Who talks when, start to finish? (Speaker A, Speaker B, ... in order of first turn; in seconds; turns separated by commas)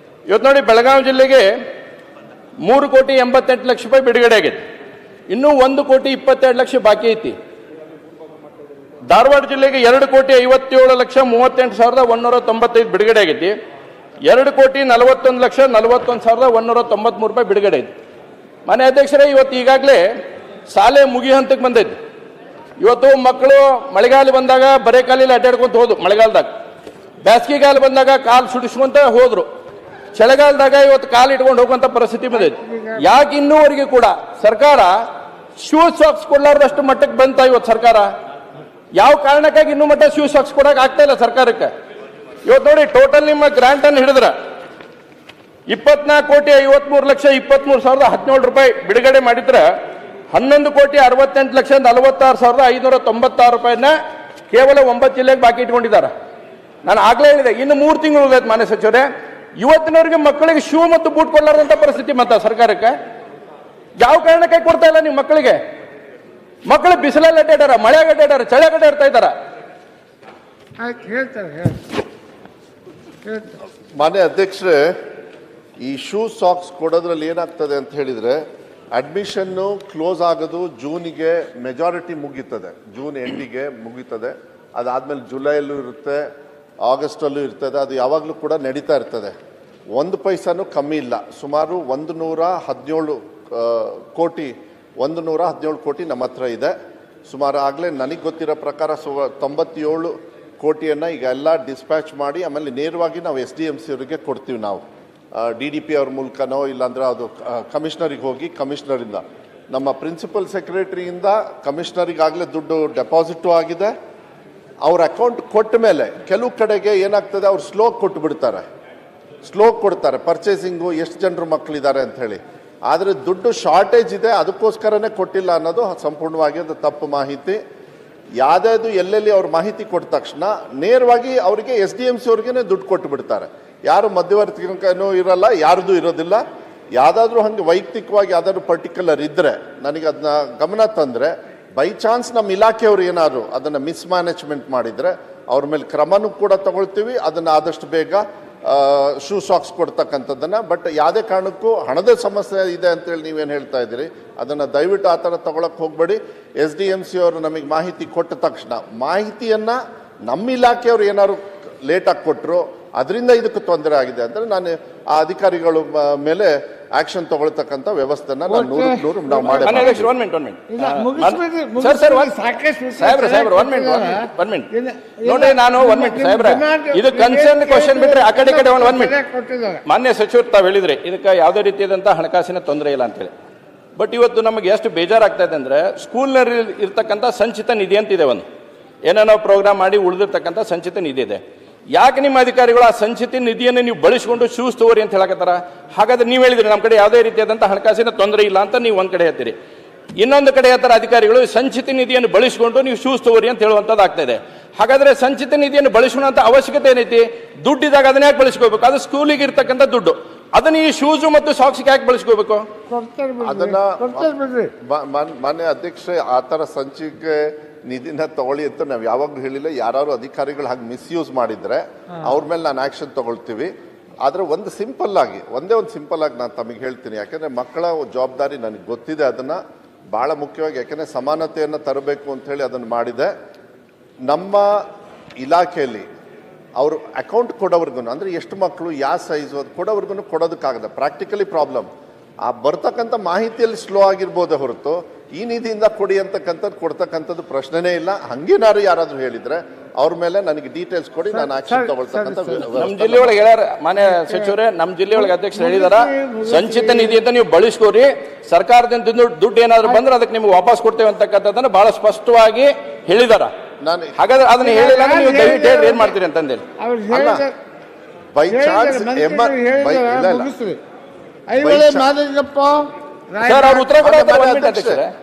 Speaker A: 0.3-1.5, Speaker A: 2.6-4.6, Speaker A: 5.3-7.4, Speaker A: 9.1-13.5, Speaker A: 14.2-17.9, Speaker A: 18.7-20.1, Speaker A: 20.7-21.9, Speaker A: 22.8-26.5, Speaker A: 27.2-29.5, Speaker A: 30.1-35.0, Speaker B: 32.4-33.1, Speaker A: 35.6-38.1, Speaker A: 38.9-41.7, Speaker A: 42.5-44.3, Speaker A: 45.7-49.7, Speaker A: 50.3-53.9, Speaker A: 54.5-56.1, Speaker A: 56.8-63.0, Speaker A: 64.0-65.6, Speaker A: 66.7-69.3, Speaker B: 70.8-71.9, Speaker B: 73.2-73.5, Speaker C: 74.0-74.9, Speaker C: 75.8-78.4, Speaker C: 78.9-86.2, Speaker C: 86.8-89.3, Speaker C: 90.0-96.7, Speaker C: 97.3-104.8, Speaker C: 105.4-113.9, Speaker C: 114.8-118.6, Speaker C: 119.4-127.6, Speaker C: 128.4-136.4, Speaker C: 137.0-170.1, Speaker B: 168.5-170.0, Speaker A: 169.5-172.3, Speaker B: 170.7-179.8, Speaker A: 172.9-174.7, Speaker A: 175.2-179.2, Speaker A: 179.9-183.3, Speaker A: 184.0-188.4, Speaker A: 189.1-191.4, Speaker A: 191.9-199.6, Speaker A: 200.2-212.7, Speaker B: 212.9-214.7, Speaker C: 213.4-223.7, Speaker C: 224.2-229.6, Speaker C: 230.1-233.3, Speaker C: 234.3-234.8, Speaker C: 235.4-236.1, Speaker C: 236.8-241.9, Speaker C: 242.4-253.4, Speaker B: 251.3-252.7, Speaker A: 252.7-263.5, Speaker B: 254.1-254.5, Speaker B: 255.2-257.2, Speaker C: 263.8-264.1, Speaker A: 264.2-266.6, Speaker B: 264.6-266.2, Speaker B: 266.8-267.6, Speaker C: 267.1-267.4, Speaker C: 268.4-270.5, Speaker B: 268.5-270.8, Speaker B: 271.5-274.0, Speaker C: 271.6-272.1, Speaker A: 273.4-275.1, Speaker C: 274.0-275.0